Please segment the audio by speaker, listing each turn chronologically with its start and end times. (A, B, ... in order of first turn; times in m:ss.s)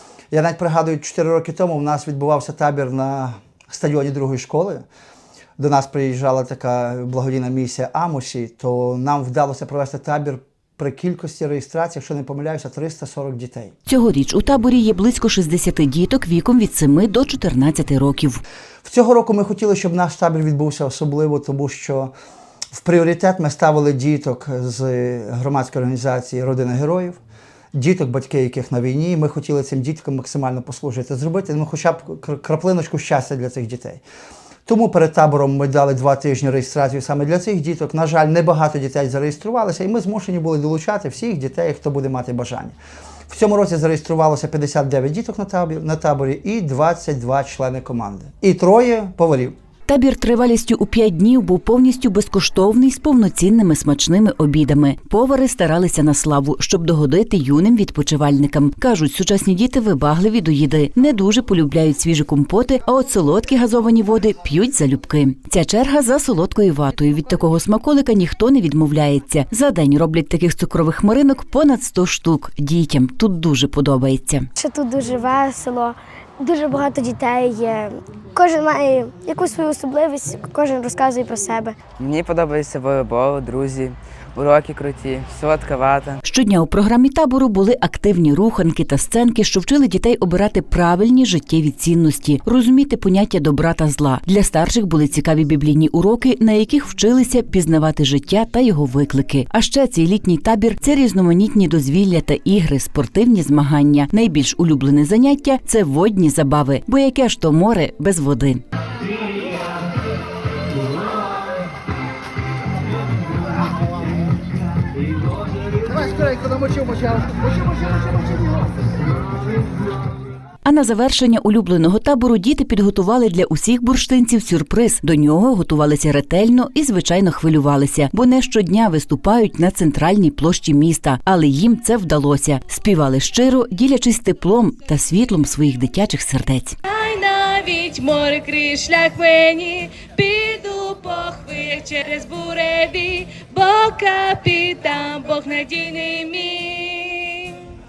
0:00.3-0:04.8 A
0:05.6-0:13.7 A
0:13.8-0:18.4 B
0:18.8-0:22.1 A
0:22.7-0:27.2 A
0:27.7-0:34.0 A
0:34.7-0:42.8 A
0:43.3-0:49.5 A
0:49.9-1:14.5 B
1:14.6-1:21.8 C
1:22.0-1:26.2 D
1:26.2-1:48.6 B
2:00.6-2:16.8 B
2:16.8-2:27.5 E